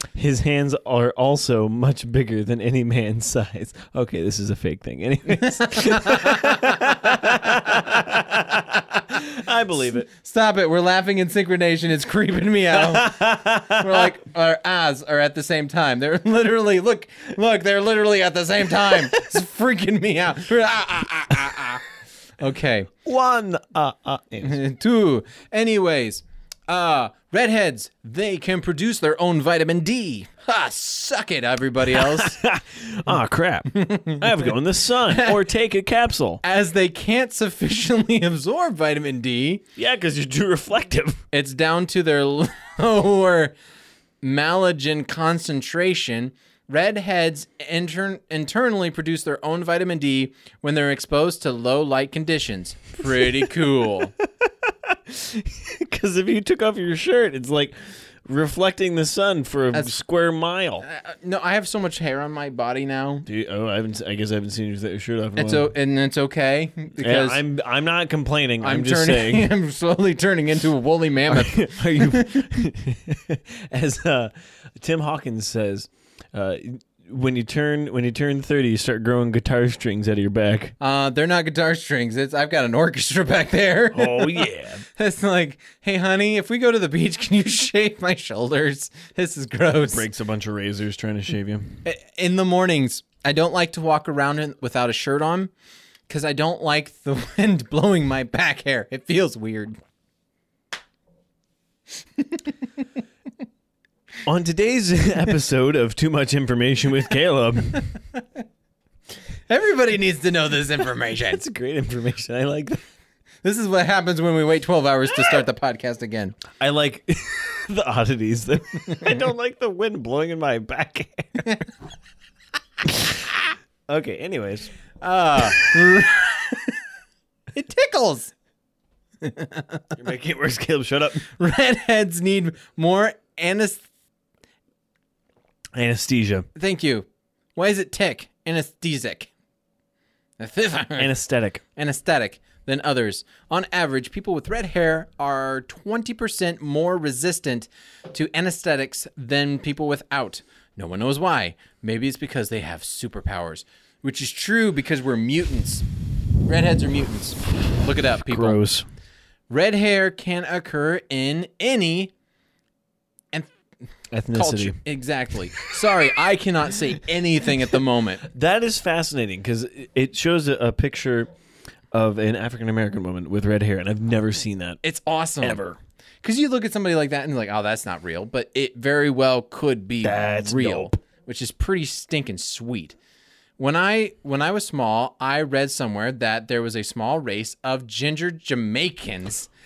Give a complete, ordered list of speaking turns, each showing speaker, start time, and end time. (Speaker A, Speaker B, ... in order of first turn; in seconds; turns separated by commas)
Speaker A: 0.1-10.1, Speaker B: 5.4-8.0, Speaker B: 10.1-21.9, Speaker A: 12.7-14.1, Speaker B: 22.4-22.9, Speaker A: 23.0-24.6, Speaker B: 24.4-32.4, Speaker A: 31.9-36.4, Speaker B: 33.7-35.4, Speaker B: 36.4-39.6, Speaker A: 39.8-41.2, Speaker B: 41.3-43.5, Speaker B: 44.2-54.1, Speaker A: 54.2-60.9, Speaker B: 60.8-63.3, Speaker A: 63.3-65.7, Speaker B: 65.4-67.4, Speaker A: 67.0-69.5, Speaker B: 68.6-72.5, Speaker A: 71.3-80.8, Speaker B: 80.8-90.1, Speaker A: 83.9-84.8, Speaker A: 89.8-91.8, Speaker B: 91.8-95.5, Speaker B: 96.1-99.8, Speaker B: 102.2-102.5, Speaker A: 104.2-107.9, Speaker B: 109.5-111.4, Speaker A: 111.3-112.8, Speaker B: 113.4-116.4, Speaker A: 116.5-121.6, Speaker A: 122.8-124.7, Speaker B: 125.0-126.8, Speaker A: 125.4-126.0, Speaker B: 127.5-128.3, Speaker B: 129.2-129.9, Speaker A: 129.9-131.3, Speaker B: 131.2-133.8, Speaker A: 135.8-136.5, Speaker B: 136.6-139.3, Speaker B: 140.4-141.1, Speaker A: 141.0-141.6, Speaker B: 141.8-155.9, Speaker B: 156.4-158.6, Speaker A: 158.2-158.9, Speaker B: 159.5-162.1, Speaker A: 164.1-164.8, Speaker B: 164.3-168.3, Speaker A: 168.2-171.3, Speaker A: 171.9-174.8, Speaker B: 174.8-175.6, Speaker A: 175.4-175.8, Speaker B: 176.2-183.0, Speaker A: 180.0-181.0, Speaker B: 183.6-189.5